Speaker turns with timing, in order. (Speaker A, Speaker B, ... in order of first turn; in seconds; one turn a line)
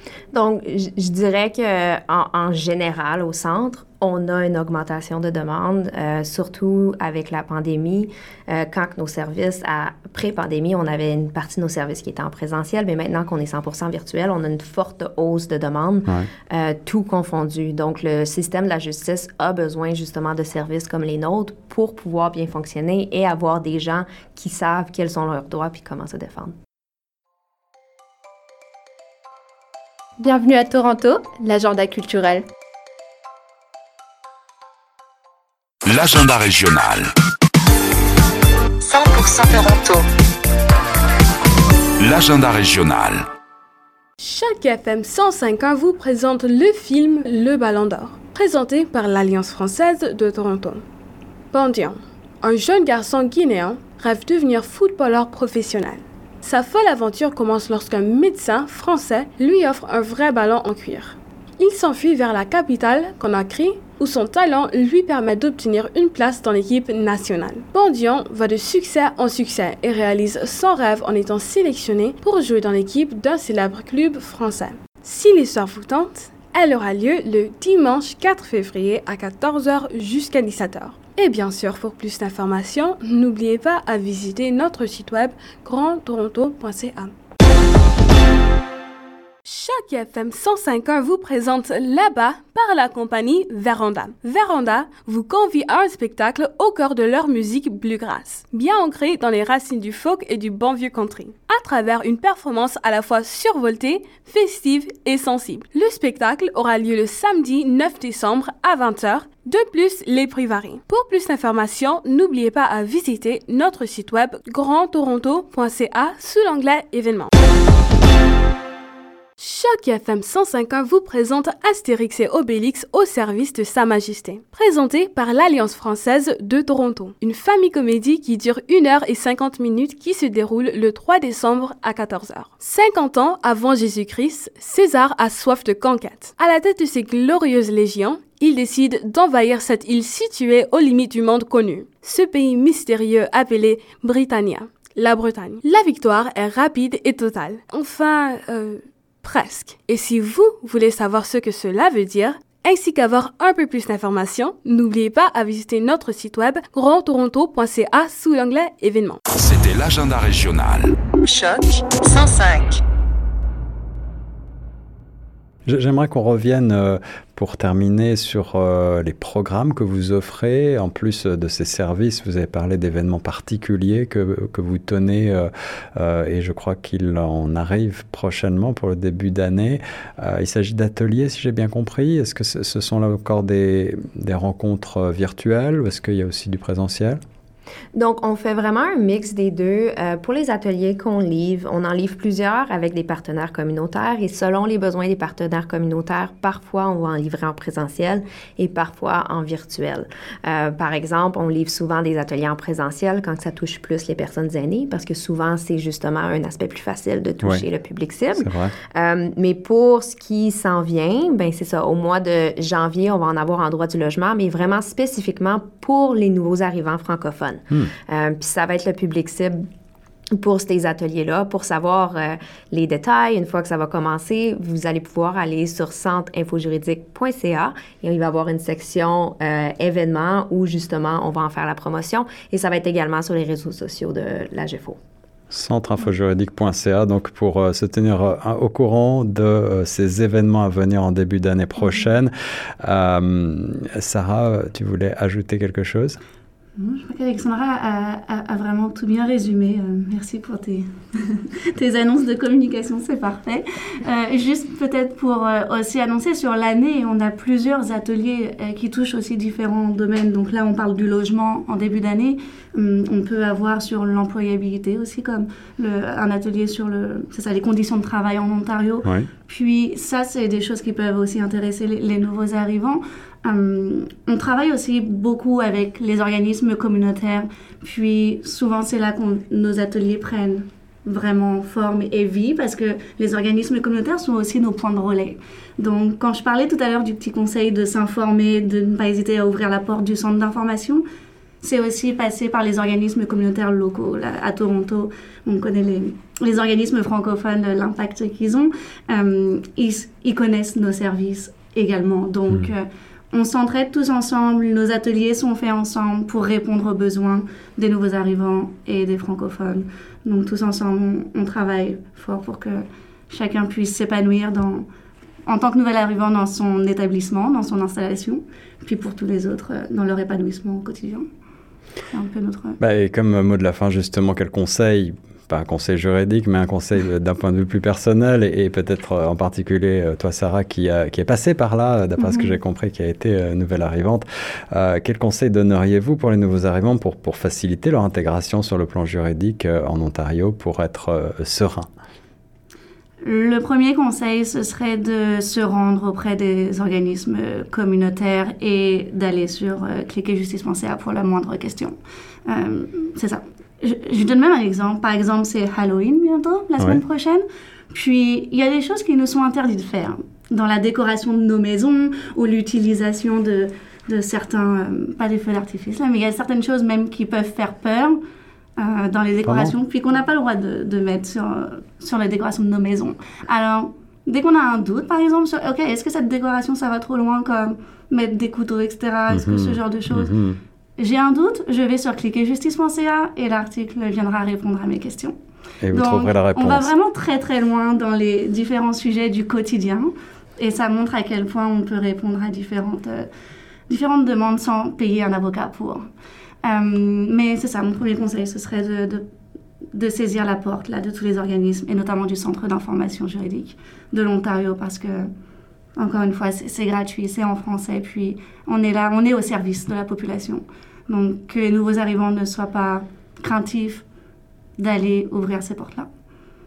Speaker A: 0.3-26.5
Speaker B: 30.2-32.4
Speaker C: 35.8-37.1
Speaker D: 38.8-40.0
Speaker C: 42.0-43.3
Speaker E: 44.2-50.8
Speaker E: 51.5-87.1
Speaker E: 89.5-117.3
Speaker E: 119.4-159.2
Speaker C: 159.3-160.9
Speaker D: 161.2-162.8
Speaker F: 165.7-187.2
Speaker A: 187.9-219.7
Speaker F: 208.4-208.7
Speaker A: 220.3-235.0
Speaker F: 235.5-246.2
Speaker G: 246.8-291.0
Speaker F: 269.0-269.3
Speaker G: 291.6-314.9
Speaker G: 315.4-321.3
Speaker G: 322.1-322.8
Speaker F: 322.8-341.9
Speaker G: 332.2-332.5
Speaker G: 343.2-368.2
Speaker G: 368.8-380.3
Speaker F: 369.4-369.7
Speaker F: 379.3-380.6
Speaker G: 381.0-385.3
Speaker F: 385.8-386.9
Speaker G: 385.9-393.3
Speaker G: 393.9-396.1
Speaker G: 396.6-399.2
Speaker G: 399.9-405.3
Speaker G: 405.9-414.0
Speaker G: 414.8-416.1